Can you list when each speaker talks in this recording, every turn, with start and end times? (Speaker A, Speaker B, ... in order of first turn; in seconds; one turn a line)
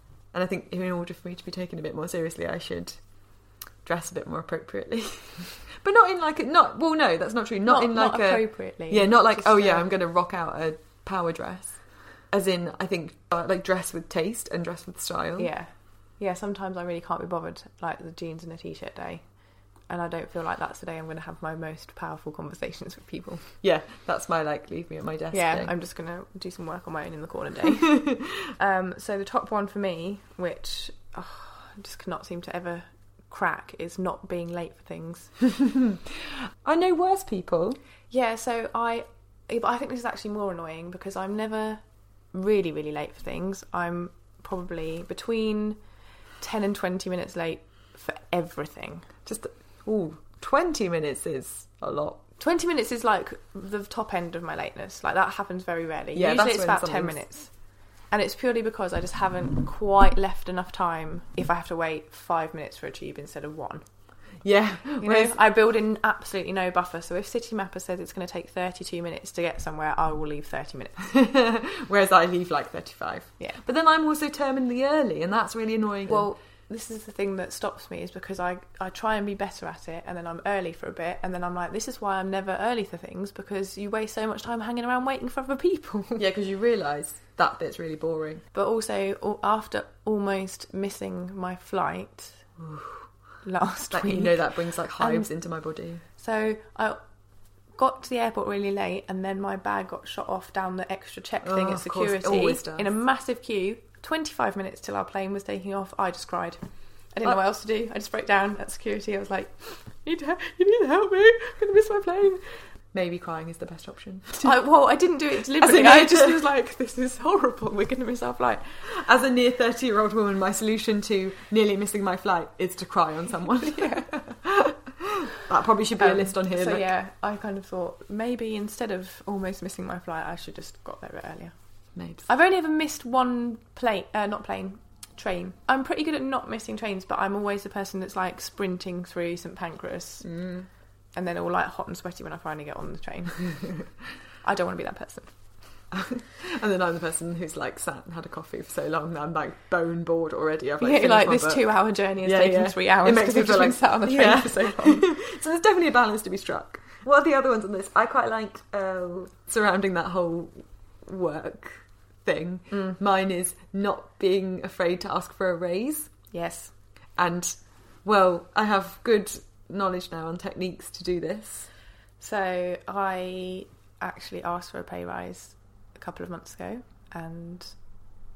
Speaker A: 0.3-3.0
Speaker A: 3.8-15.5
Speaker B: 7.7-9.9
Speaker B: 15.4-19.2
Speaker B: 19.9-23.5
Speaker A: 23.6-25.7
Speaker B: 25.3-35.3
Speaker A: 35.6-37.8
Speaker B: 38.1-45.8
Speaker B: 46.4-49.1
Speaker A: 49.2-52.2
Speaker B: 52.4-57.5
Speaker A: 56.1-57.2
Speaker B: 58.1-63.9
Speaker A: 64.4-65.4
Speaker B: 65.0-71.1
Speaker A: 71.0-76.3
Speaker B: 76.1-86.2
Speaker A: 86.2-88.4
Speaker B: 88.5-92.4
Speaker A: 92.6-93.0
Speaker B: 93.4-95.3
Speaker A: 93.9-96.0
Speaker B: 96.2-97.0
Speaker B: 97.8-112.6
Speaker A: 101.4-102.9
Speaker A: 112.9-114.6
Speaker B: 114.4-118.9
Speaker A: 115.5-116.3
Speaker A: 118.9-126.9
Speaker B: 123.6-124.1
Speaker B: 126.0-131.5
Speaker A: 132.0-132.3
Speaker B: 132.3-140.3
Speaker A: 140.2-140.7
Speaker B: 141.1-143.8
Speaker B: 144.4-145.3
Speaker A: 145.9-166.1
Speaker B: 150.8-155.1
Speaker B: 162.7-163.0
Speaker B: 166.3-166.7
Speaker A: 167.2-171.7
Speaker B: 172.2-177.7